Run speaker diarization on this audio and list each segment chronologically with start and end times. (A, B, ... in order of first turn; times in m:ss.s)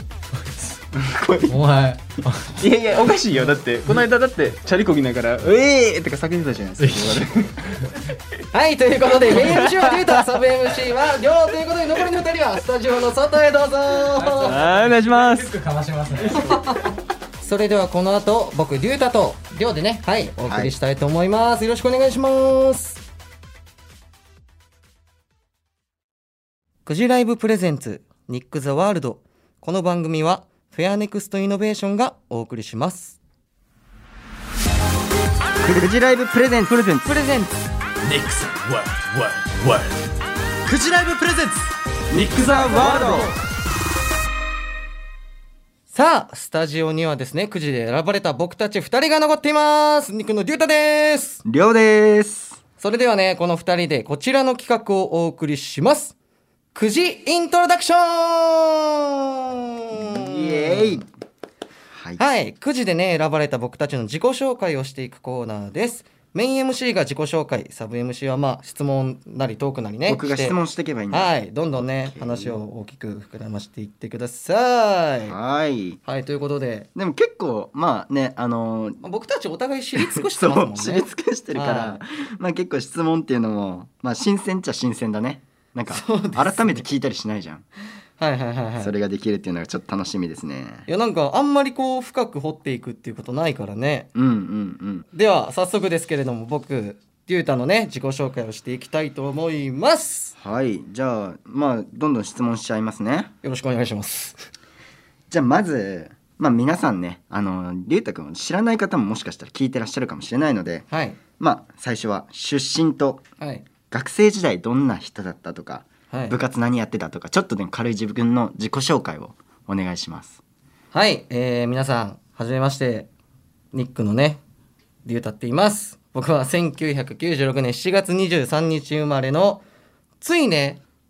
0:00.3-0:00.8 A
0:01.1-0:01.6 B
0:01.5-0:02.7 A
0:02.6-0:07.8 C
0:06.8-0:08.0 A
0:08.5-0:14.6 D
0:09.2-0:10.2 C
0:14.1-0:16.7 A
0:14.4-0:15.5 C
0:16.3-0:23.0 D
0:20.4-0:20.7 B
0:26.8-0:33.2 D
0:35.6-0:37.0 B
0:37.0-0:37.6 D
0:38.0-0:39.9 A
0:40.7-0:41.7 A
0:42.1-0:43.4 B
0:42.8-0:43.2 D
0:45.9-0:51.4 D
0:51.4-0:52.6 B
0:52.8-0:56.2 D
0:56.7-1:01.0 D
0:59.9-1:01.0 B
1:01.9-1:02.2 B
1:02.2-1:10.6 D
1:10.0-1:12.6 B
1:11.1-1:15.4 D
1:15.2-1:16.0 B
1:16.0-1:16.9 D
1:16.9-1:19.0 B
1:19.0-1:22.0 D
1:20.0-1:27.6 B
1:25.9-1:26.8 D
1:28.2-1:28.9 D
1:28.8-1:30.9 B
1:30.9-1:34.1 D
1:34.1-1:35.1 B
1:35.1-1:40.4 D
1:40.4-1:43.3 B
1:43.4-1:44.5 D
1:45.3-1:50.8 B
1:50.9-1:51.2 D
1:51.4-1:53.2 B
1:53.4-1:53.6 D
1:53.9-2:00.4 B
1:56.1-1:56.4 D
2:00.9-2:03.1 D
2:03.7-2:04.4 D
2:05.0-2:09.6 D
2:10.2-2:10.8 D